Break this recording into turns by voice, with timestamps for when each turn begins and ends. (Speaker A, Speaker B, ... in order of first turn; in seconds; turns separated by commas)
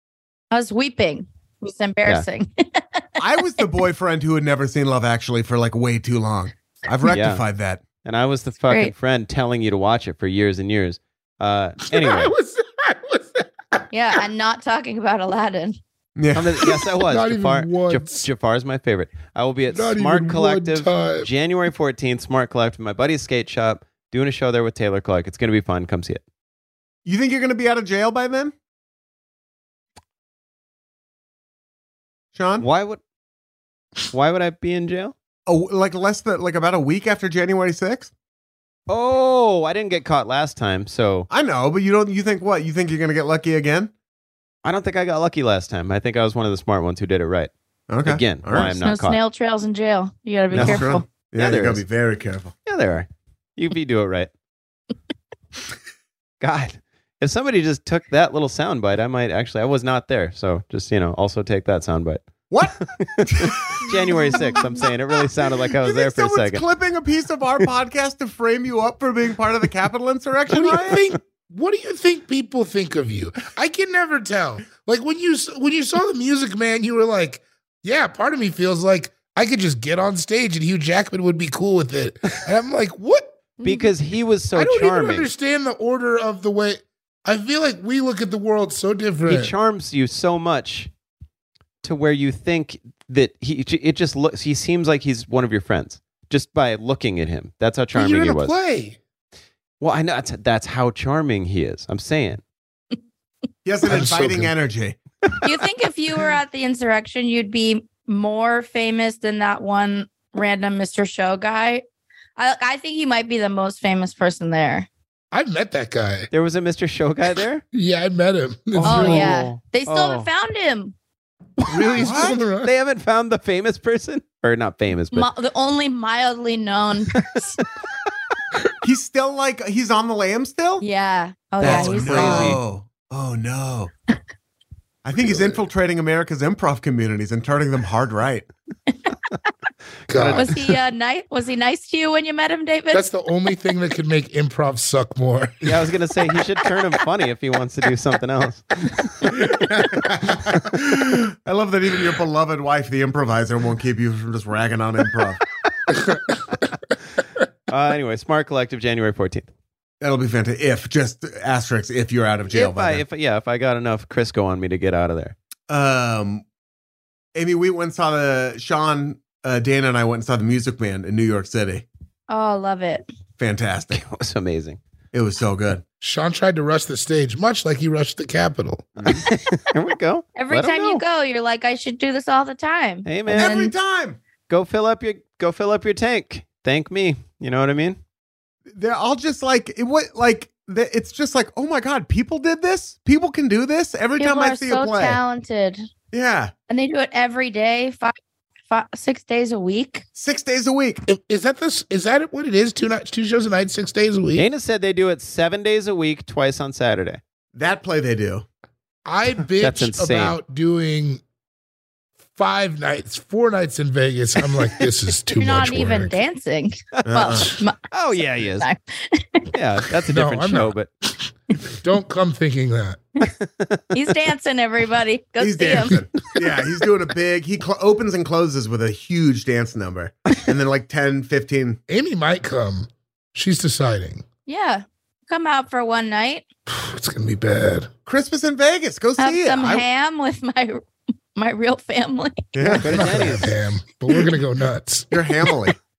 Speaker A: 0.5-3.0, Speaker B: 3.2-7.8, Speaker C: 7.1-7.4, Speaker C: 8.0-12.3, Speaker D: 11.9-13.8, Speaker A: 13.9-15.8, Speaker B: 16.1-16.7, Speaker C: 16.3-26.2, Speaker D: 16.7-18.3, Speaker D: 19.7-21.3, Speaker B: 27.1-28.5, Speaker B: 32.3-32.6, Speaker C: 32.6-33.0, Speaker C: 34.1-35.1, Speaker B: 35.5-38.1, Speaker C: 38.9-41.3, Speaker B: 41.3-43.9, Speaker C: 44.6-47.5, Speaker B: 47.9-48.7, Speaker C: 48.0-49.2, Speaker A: 48.8-51.0, Speaker B: 50.5-52.5, Speaker C: 50.5-50.8, Speaker C: 51.4-51.8, Speaker C: 52.6-54.3, Speaker C: 56.4-62.2, Speaker B: 62.5-64.8, Speaker C: 63.0-66.6, Speaker B: 65.8-71.0, Speaker D: 70.5-83.4, Speaker C: 83.6-85.3, Speaker D: 84.5-89.5, Speaker C: 89.2-90.9, Speaker C: 91.8-98.5, Speaker D: 97.9-99.0, Speaker C: 99.8-102.4, Speaker B: 103.6-105.4, Speaker D: 103.8-104.5, Speaker A: 105.4-111.8, Speaker A: 112.4-114.9, Speaker D: 115.3-116.3, Speaker C: 116.3-117.6, Speaker D: 117.7-119.3, Speaker C: 118.7-120.3, Speaker A: 118.8-120.9, Speaker D: 121.7-122.7, Speaker B: 121.9-122.4, Speaker C: 122.6-125.3, Speaker A: 125.1-127.6, Speaker B: 128.8-130.8, Speaker A: 130.8-132.5, Speaker C: 131.6-132.6, Speaker B: 131.6-133.9, Speaker D: 132.0-132.6, Speaker B: 135.0-138.4, Speaker D: 135.2-135.6, Speaker C: 140.1-140.4, Speaker D: 140.1-140.6, Speaker A: 140.3-143.0, Speaker D: 142.9-145.8, Speaker C: 145.6-149.3, Speaker B: 149.3-155.4, Speaker D: 155.9-156.3, Speaker C: 157.7-159.5, Speaker B: 160.0-163.0, Speaker C: 162.5-165.3, Speaker B: 165.7-166.4, Speaker B: 167.3-171.8, Speaker A: 172.3-173.1, Speaker B: 173.4-174.0, Speaker C: 173.9-174.8, Speaker B: 175.1-175.8, Speaker D: 176.0-178.9, Speaker C: 179.0-181.0, Speaker A: 180.3-183.7, Speaker C: 183.0-183.6, Speaker B: 183.3-184.2, Speaker C: 184.5-188.0, Speaker B: 188.7-195.2, Speaker A: 194.2-195.8, Speaker B: 196.1-196.5, Speaker A: 196.7-198.1, Speaker A: 198.7-200.0, Speaker B: 200.2-201.0, Speaker D: 201.1-204.5, Speaker C: 204.3-207.2, Speaker B: 207.5-208.4, Speaker D: 209.1-211.2, Speaker C: 209.6-210.3, Speaker D: 212.3-216.2, Speaker A: 215.3-219.4, Speaker B: 217.0-217.5, Speaker C: 217.9-218.7, Speaker C: 219.5-220.9, Speaker D: 220.1-223.0, Speaker C: 223.4-223.8, Speaker A: 223.9-226.0, Speaker B: 225.4-231.8, Speaker D: 231.9-234.2, Speaker A: 234.5-236.4, Speaker D: 236.7-237.9, Speaker B: 238.1-239.8, Speaker A: 239.2-240.8, Speaker A: 241.3-242.5, Speaker B: 242.5-243.3, Speaker D: 242.6-245.1, Speaker C: 242.6-243.5, Speaker B: 245.1-245.8